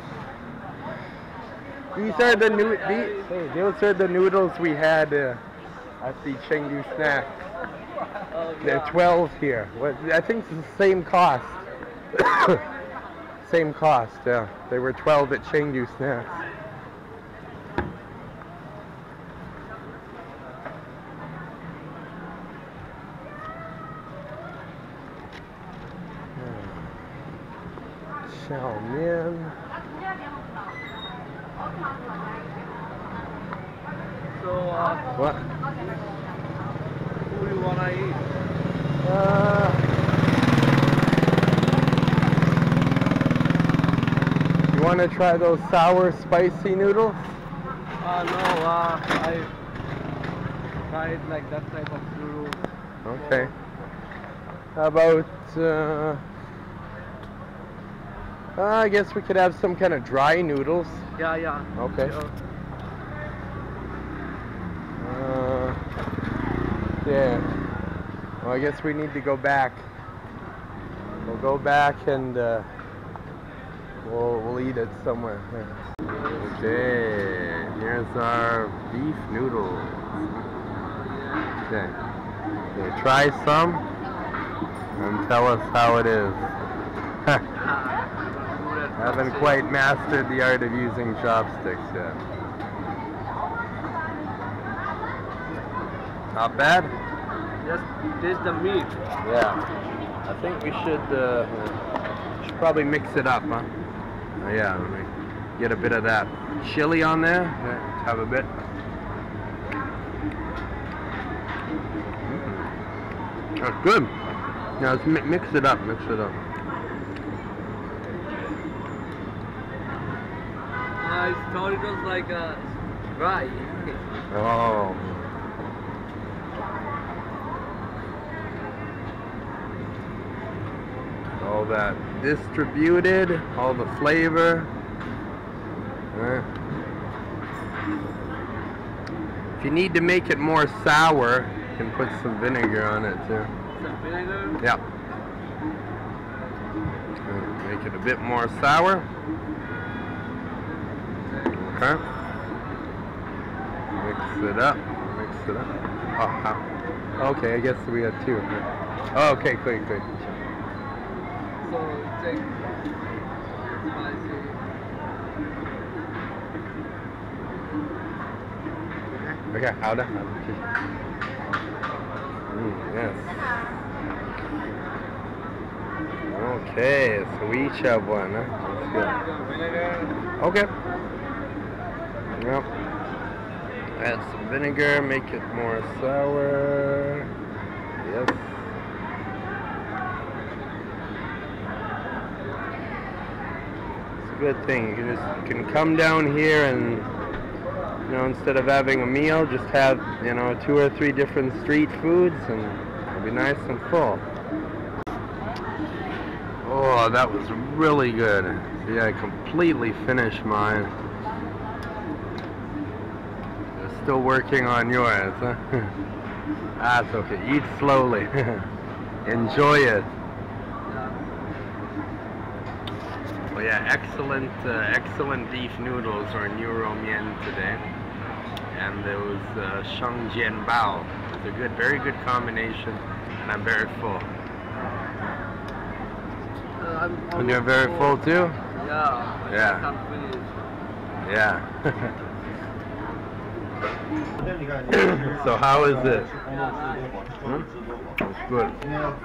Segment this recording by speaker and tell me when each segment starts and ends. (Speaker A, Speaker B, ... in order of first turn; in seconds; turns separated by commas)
Speaker A: 1.9-5.4, Speaker B: 2.0-3.3, Speaker A: 6.0-7.4, Speaker B: 8.2-9.0, Speaker A: 8.6-11.6, Speaker A: 12.1-12.6, Speaker A: 13.4-16.4, Speaker A: 26.4-27.0, Speaker A: 28.2-29.6, Speaker B: 34.4-35.0, Speaker A: 35.1-35.5, Speaker B: 37.3-38.2, Speaker A: 39.0-39.9, Speaker A: 44.7-47.2, Speaker B: 48.0-49.5, Speaker B: 50.9-53.6, Speaker A: 53.0-53.5, Speaker A: 54.8-56.2, Speaker A: 58.6-61.1, Speaker B: 61.2-62.3, Speaker A: 61.8-62.1, Speaker A: 65.0-65.8, Speaker A: 67.0-67.5, Speaker A: 68.4-69.9, Speaker A: 71.2-72.7, Speaker A: 74.0-80.2, Speaker B: 76.1-76.9, Speaker B: 80.8-81.5, Speaker A: 81.7-82.0, Speaker A: 82.7-83.8, Speaker A: 85.0-86.5, Speaker B: 87.5-89.7, Speaker A: 89.0-92.2, Speaker A: 96.3-96.9, Speaker B: 97.6-99.0, Speaker A: 99.2-99.6, Speaker A: 100.2-101.8, Speaker A: 102.4-103.7, Speaker A: 104.4-108.5, Speaker A: 112.3-112.7, Speaker A: 113.6-114.1, Speaker A: 114.8-116.4, Speaker B: 121.0-124.0, Speaker A: 124.3-125.3, Speaker A: 131.4-134.7, Speaker A: 136.1-136.5, Speaker A: 139.6-143.5, Speaker B: 143.8-144.6, Speaker A: 147.3-149.1, Speaker A: 151.4-152.0, Speaker A: 154.0-156.6, Speaker A: 157.2-160.4, Speaker B: 161.6-162.8, Speaker B: 163.6-164.6, Speaker A: 169.5-170.6, Speaker A: 172.5-173.7, Speaker A: 176.3-179.2, Speaker B: 178.9-180.2, Speaker A: 180.4-180.7, Speaker A: 182.4-182.7, Speaker A: 184.0-187.3, Speaker A: 188.0-188.6, Speaker A: 194.2-197.1, Speaker A: 198.1-204.2, Speaker A: 206.6-210.9, Speaker A: 213.8-215.9, Speaker A: 216.8-218.7, Speaker B: 219.2-219.8, Speaker A: 219.2-220.1, Speaker B: 220.9-221.4, Speaker A: 223.5-227.8, Speaker A: 228.7-234.3, Speaker B: 236.8-238.2, Speaker A: 237.4-238.6, Speaker B: 238.8-240.6, Speaker A: 239.5-239.9, Speaker A: 241.2-242.2, Speaker A: 244.9-246.3, Speaker B: 246.4-247.3, Speaker A: 247.4-247.7, Speaker A: 248.2-248.8